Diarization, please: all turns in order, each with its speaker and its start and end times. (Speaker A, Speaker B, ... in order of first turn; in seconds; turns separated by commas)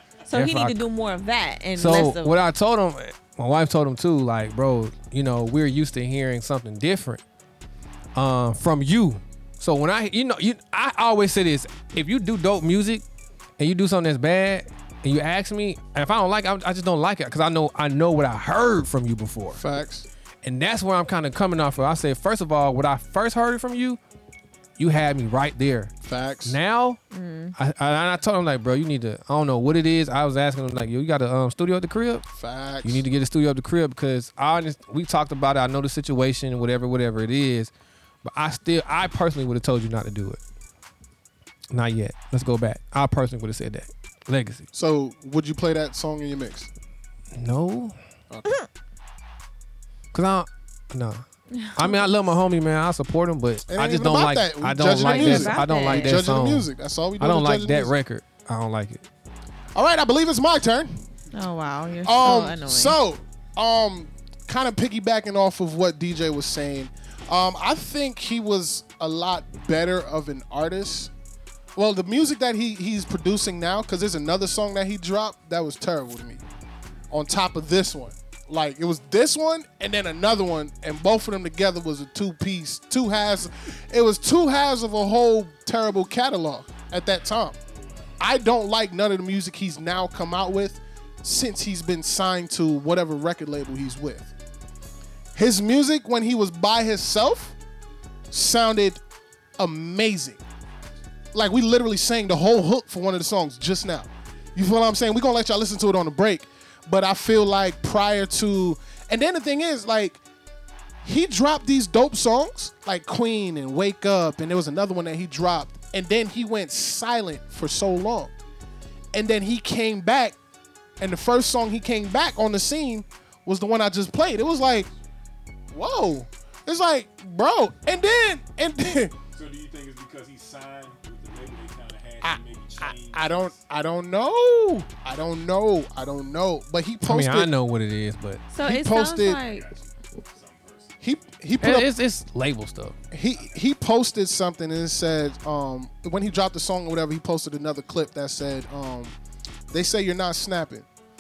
Speaker A: 0.3-2.4, Speaker B: 0.3-0.8, Speaker B: 1.8-7.2, Speaker B: 8.2-13.0, Speaker B: 13.6-19.6, Speaker C: 19.5-20.1, Speaker B: 20.4-24.0, Speaker B: 24.8-25.9, Speaker C: 26.1-26.6, Speaker B: 26.4-27.0, Speaker A: 27.1-27.6, Speaker B: 27.6-32.3, Speaker C: 32.4-33.0, Speaker B: 32.8-37.7, Speaker B: 38.2-40.4, Speaker B: 41.7-44.6, Speaker C: 44.7-46.7, Speaker B: 47.3-48.0, Speaker C: 48.3-48.6, Speaker B: 50.1-51.2, Speaker A: 51.5-52.3, Speaker B: 51.8-56.7, Speaker C: 53.7-57.9, Speaker A: 54.9-56.2, Speaker B: 57.2-59.0, Speaker C: 59.8-61.0, Speaker A: 61.3-63.0, Speaker C: 62.0-71.1, Speaker C: 71.8-76.4, Speaker C: 77.1-87.6, Speaker D: 87.7-88.2, Speaker C: 88.2-94.3, Speaker C: 95.4-97.5, Speaker C: 98.3-99.0, Speaker C: 99.6-100.4, Speaker C: 101.3-110.2, Speaker C: 111.0-118.3, Speaker C: 119.1-120.4, Speaker C: 121.0-124.9, Speaker C: 125.7-129.1, Speaker D: 129.3-133.6, Speaker C: 132.2-137.5, Speaker B: 137.0-138.4, Speaker A: 138.5-139.7, Speaker C: 138.6-139.4, Speaker D: 139.4-141.4, Speaker C: 141.0-141.9, Speaker B: 141.6-143.0, Speaker C: 143.1-149.2, Speaker C: 149.7-150.9